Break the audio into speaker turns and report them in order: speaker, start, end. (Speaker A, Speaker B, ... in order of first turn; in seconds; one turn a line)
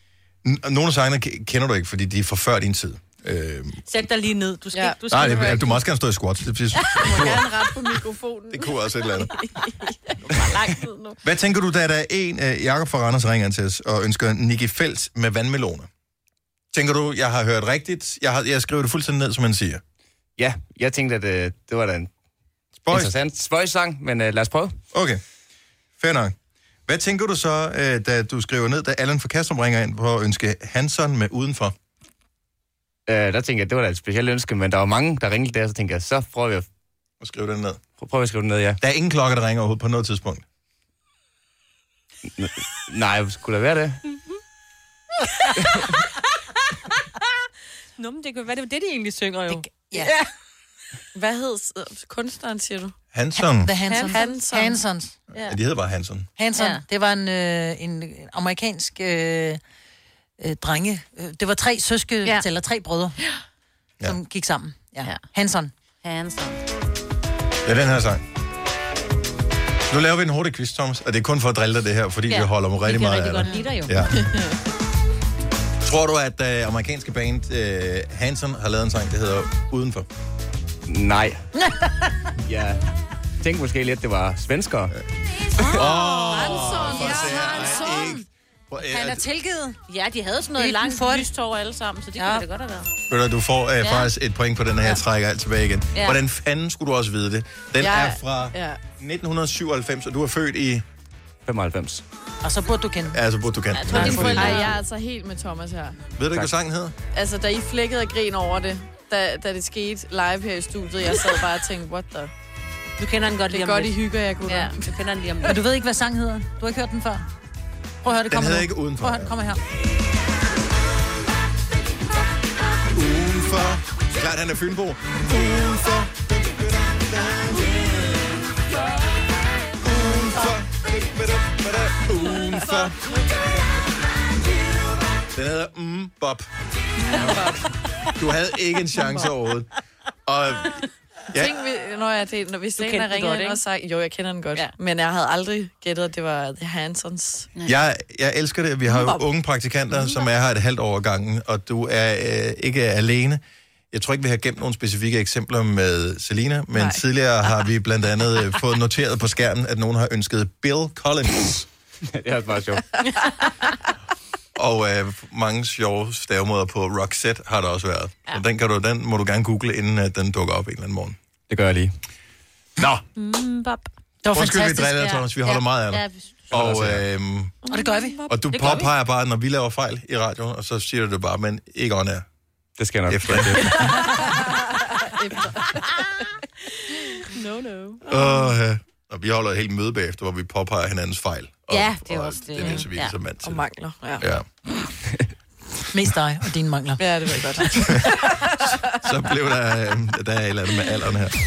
Speaker A: 0.4-3.8
Speaker B: 3.9-5.8
Speaker C: 4.7-5.6
Speaker A: 5.1-7.5
Speaker B: 6.7-7.3
Speaker C: 7.0-10.0
Speaker A: 8.5-9.3
Speaker B: 10.1-11.2
Speaker A: 11.2-15.9
Speaker A: 16.7-19.8
Speaker D: 20.4-22.1
Speaker A: 22.8-23.1
Speaker D: 22.9-24.7
Speaker A: 24.9-25.2
Speaker A: 26.0-26.4
Speaker A: 26.9-31.7
Speaker D: 33.1-36.7
Speaker A: 37.2-37.8
Speaker D: 38.0-38.8
Speaker A: 38.8-40.4
Speaker D: 42.4-44.0
Speaker B: 48.0-50.1
Speaker E: 49.5-50.1
Speaker C: 51.1-53.0
Speaker A: 53.1-53.7
Speaker E: 53.4-55.2
Speaker B: 53.9-54.4
Speaker C: 54.0-54.8
Speaker A: 55.3-56.3
Speaker E: 56.4-59.6
Speaker B: 56.5-56.8
Speaker E: 60.4-63.2
Speaker E: 64.0-65.7
Speaker B: 66.0-66.6
Speaker A: 67.6-68.2
Speaker A: 69.9-74.2
Speaker B: 72.3-74.0
Speaker C: 74.1-74.6
Speaker A: 75.8-80.0
Speaker D: 80.9-81.4
Speaker E: 81.6-82.1
Speaker D: 82.5-82.9
Speaker D: 83.4-84.9
Speaker B: 85.6-87.8
Speaker A: 85.7-89.2
Speaker E: 86.0-88.2
Speaker E: 88.8-89.8
Speaker B: 89.9-92.9
Speaker E: 90.6-91.2
Speaker E: 92.2-92.4
Speaker A: 93.1-100.8
Speaker B: 93.8-94.1
Speaker B: 95.9-96.2
Speaker C: 97.8-98.8
Speaker D: 101.5-102.0
Speaker E: 102.4-103.2
Speaker A: 103.1-104.7
Speaker B: 103.7-104.7
Speaker E: 103.9-104.6
Speaker C: 103.9-106.0
Speaker A: 106.2-106.9
Speaker C: 107.1-112.3
Speaker B: 113.0-115.6
Speaker C: 113.5-114.9
Speaker E: 115.4-117.3
Speaker E: 118.0-119.6
Speaker A: 118.3-119.3
Speaker A: 122.9-128.3
Speaker A: 129.8-133.0
Speaker A: 135.3-136.5
Speaker C: 137.1-137.7
Speaker A: 138.1-139.7
Speaker A: 140.2-141.6
Speaker C: 141.3-147.5
Speaker B: 142.8-143.6
Speaker A: 147.6-161.7
Speaker C: 148.9-149.2
Speaker C: 156.7-157.5
Speaker D: 162.2-162.8
Speaker C: 163.0-163.7
Speaker A: 164.6-171.2
Speaker D: 171.5-171.9
Speaker B: 173.2-173.9
Speaker E: 174.2-175.1
Speaker A: 174.3-177.5
Speaker B: 175.0-176.6
Speaker D: 176.5-177.0
Speaker C: 177.7-178.3
Speaker E: 177.7-178.2
Speaker A: 178.3-182.2
Speaker B: 178.5-178.9
Speaker D: 182.8-183.8
Speaker A: 183.1-184.0
Speaker C: 184.0-186.2
Speaker C: 186.8-187.4
Speaker B: 187.4-188.0
Speaker A: 188.0-193.6
Speaker C: 188.1-188.4
Speaker B: 191.7-193.1
Speaker C: 192.6-192.8
Speaker C: 193.4-194.2
Speaker A: 194.2-194.4
Speaker E: 195.9-197.0
Speaker C: 197.0-198.8
Speaker A: 197.7-201.3